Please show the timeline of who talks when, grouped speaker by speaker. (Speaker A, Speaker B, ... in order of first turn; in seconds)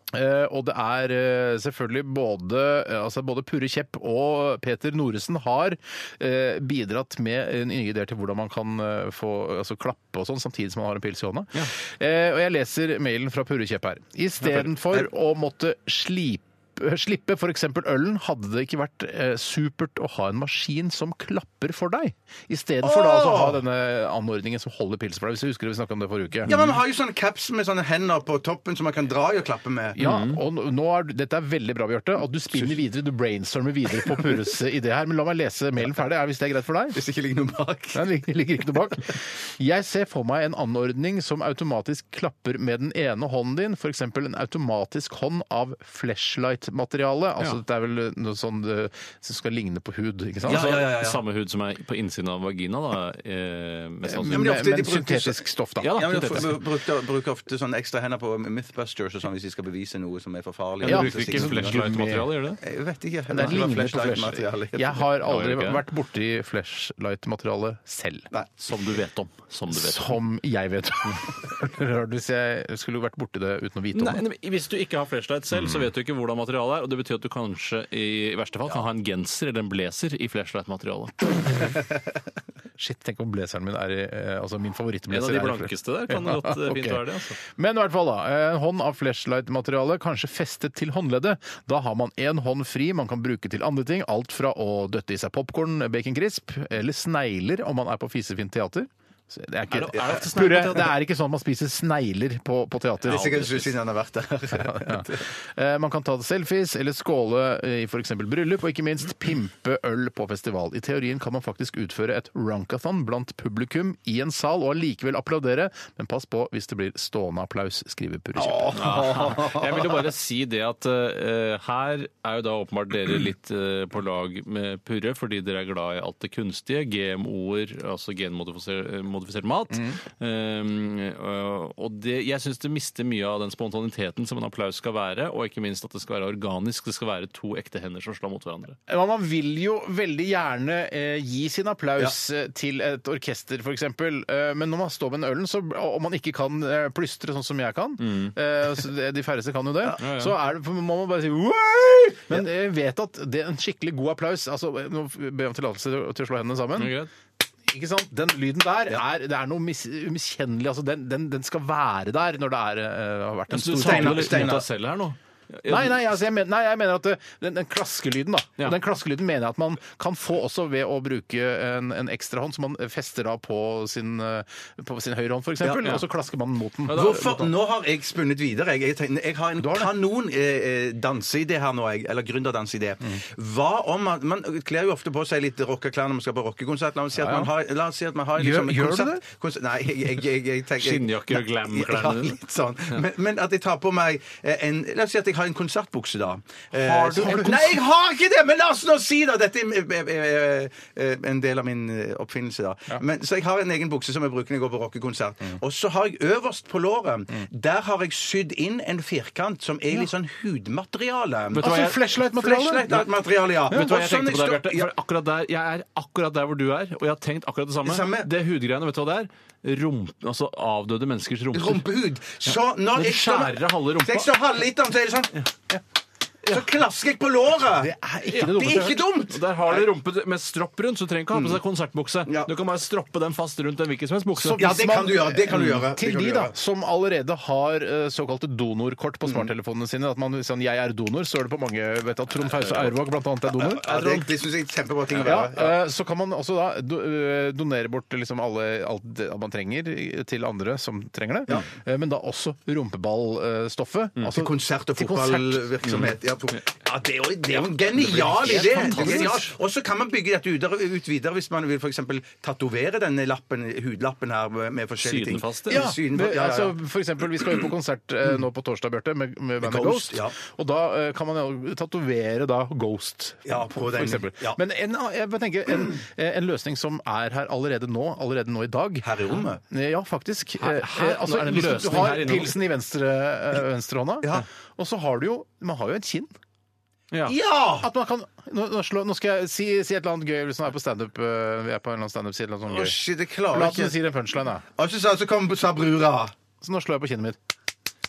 Speaker A: 0.1-26.5, 29.9-37.0, 37.9-50.7, 54.0-56.5, 60.8-62.3, 63.3-68.3, 69.7-74.2, 82.8-103.7, 104.5-119.3, 138.9-157.0, 157.7-164.6, 165.7-177.5, 179.6-179.9, 187.2-187.5, 188.4-189.2, 211.6-213.0, 227.8-229.0, 234.3-243.8, 245.1-255.7, 258.4-259.3, 265.7-279.1, 279.6-286.3, 287.8-293.0, 293.5-294.6, 296.6-297.4
Speaker B: 14.4-14.7, 30.0-30.4, 50.5-54.5, 55.8-56.6, 60.8-62.6, 65.2-65.8, 68.6-70.2, 73.9-81.1, 85.1-87.4, 99.7-100.9, 103.1-103.6, 118.7-138.8, 148.0-148.3, 150.0-150.3, 156.8-157.1, 163.5-165.9, 176.9-177.4, 190.8-192.4, 196.8-197.7, 211.6-211.9, 213.7-221.9, 222.5-224.3, 228.3-228.6, 229.3-234.6, 243.8-244.3, 258.1-259.5, 265.0-265.9, 280.6-282.6
Speaker C: 22.8-23.6, 26.4-30.0, 36.9-38.0, 50.4-51.2, 54.2-61.8, 62.6-65.0, 103.1-105.3, 118.3-119.9, 163.8-164.7, 176.9-214.9, 217.8-218.3, 221.5-225.3, 226.5-229.8, 231.3-231.6, 232.2-232.5, 234.6-236.5, 239.2-239.5, 243.4-245.8, 254.2-266.7, 269.6-270.3, 273.4-274.6, 279.0-279.6, 287.2-287.9, 292.7-294.0, 294.8-296.3